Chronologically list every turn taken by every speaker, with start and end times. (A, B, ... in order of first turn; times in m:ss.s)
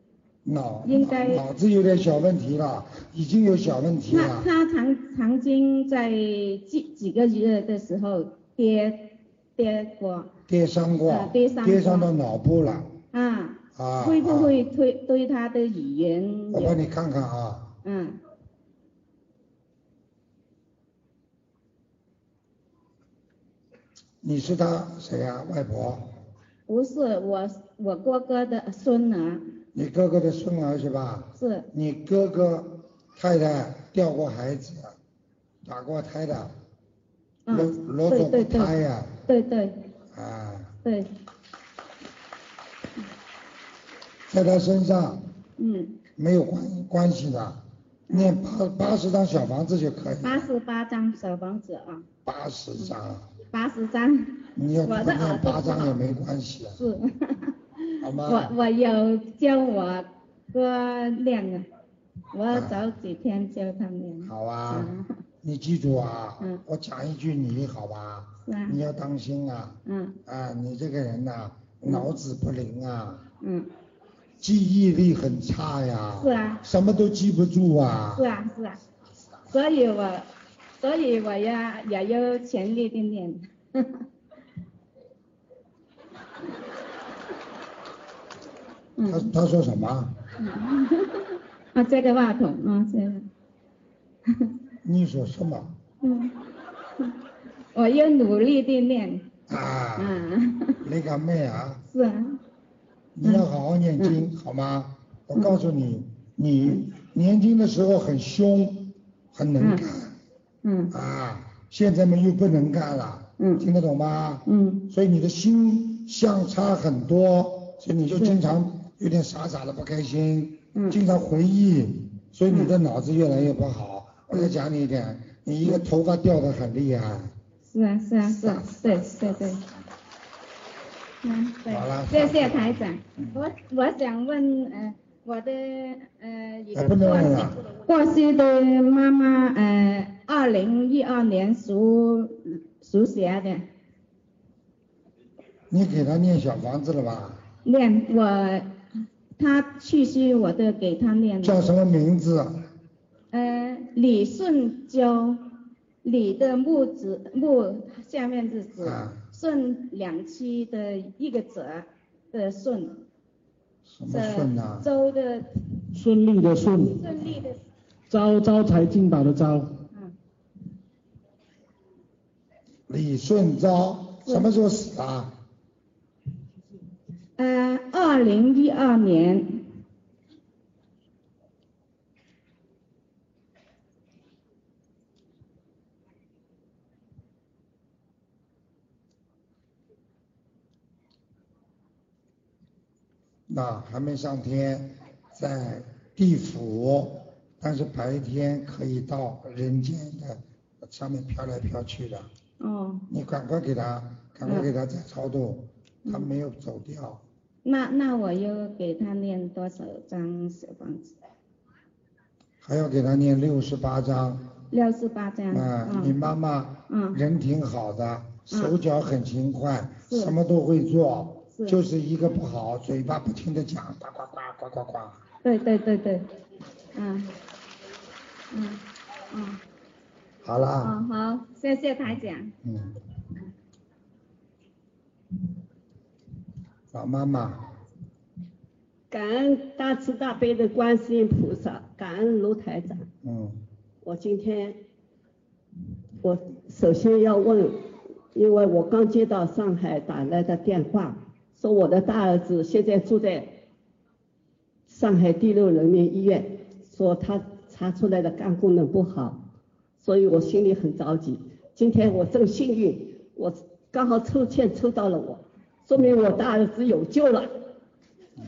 0:00.4-0:04.5 A
0:00.8-0:01.4 B
0:04.1-0:10.3 B
0:10.5-0:12.9 A
0:11.1-0:12.1 B
0:13.1-0:16.8 B
0:13.8-0:14.6 A
0:16.5-0:17.7 A
0:17.8-0:18.2 B
0:24.2-0:26.1 A
0:26.7-0:29.4 B
0:29.8-0:35.0 A
0:31.4-0:31.7 B
0:35.6-0:36.5 A
0:37.5-0:38.7 B
0:37.5-0:39.1 A
0:39.3-0:39.8 B
0:40.1-0:40.7 A
0:44.3-0:45.2 A
0:45.6-0:46.0 B
0:46.2-0:50.5 A
0:48.1-0:48.4 B
0:50.2-0:52.0 B
0:52.2-0:53.3 A
0:53.5-0:54.3 B
0:54.6-0:56.8 A
0:54.8-0:56.0 B
0:56.8-0:57.5 B
0:58.0-0:58.5 A
0:58.2-1:01.7 B
1:02.3-1:05.1 B
1:02.5-1:02.8 A
1:04.2-1:04.9 A
1:05.4-1:13.2 A
1:08.5-1:08.8 B
1:09.9-1:10.2 B
1:13.4-1:13.7 B
1:14.4-1:18.3 A
1:16.2-1:16.6 B
1:18.1-1:18.8 B
1:19.5-1:20.3 B
1:20.8-1:23.9 B
1:29.0-1:29.3 B
1:29.0-1:30.1 A
1:30.4-1:31.2 B
1:31.7-1:33.3 B
1:34.8-1:35.7 A
1:36.0-1:36.3 B
1:37.7-1:39.3 B
1:39.5-1:40.2 A
1:40.0-1:40.8 B
1:40.8-1:41.8 A
1:41.9-1:42.4 B
1:43.2-1:50.2 A
1:50.6-1:50.9 B
1:50.9-2:07.3 A
1:53.4-1:53.6 B
1:54.5-1:54.8 B
2:07.7-2:09.6 B
2:08.2-2:09.6 A
2:11.2-2:23.6 B
2:11.7-2:13.5 A
2:16.7-2:17.6 A
2:25.7-2:27.4 A
2:27.6-2:28.7 B
2:29.4-2:31.6 B
2:31.4-2:32.6 A
2:33.3-2:35.4 B
2:36.0-2:43.0 B
2:38.8-2:39.2 A
2:43.9-2:44.9 A
2:44.1-2:45.5 B
2:45.9-2:47.1 C
2:46.9-2:47.6 B
2:48.1-2:49.7 C
2:52.9-2:55.3 A
2:57.4-2:59.6 B
3:13.5-3:22.3 A
3:22.6-3:23.0 B
3:23.1-3:27.2 A
3:27.6-3:31.2 B
3:32.6-3:34.4 A
3:34.7-3:36.1 B
3:35.5-3:45.2 A
3:36.9-3:37.2 B
3:40.1-3:40.3 B
3:41.5-3:41.8 B
3:45.4-3:46.2 B
3:47.0-3:47.3 B
3:48.5-3:49.6 B
3:50.4-3:51.0 A
3:50.8-3:52.5 B
3:52.6-3:53.0 A
3:56.9-3:57.7 A
3:59.1-4:03.1 D
4:03.2-4:03.6 A
4:04.0-4:04.8 D
4:06.2-4:07.8 D
4:08.3-4:13.5 D
4:14.9-4:19.4 D
4:20.0-4:27.5 D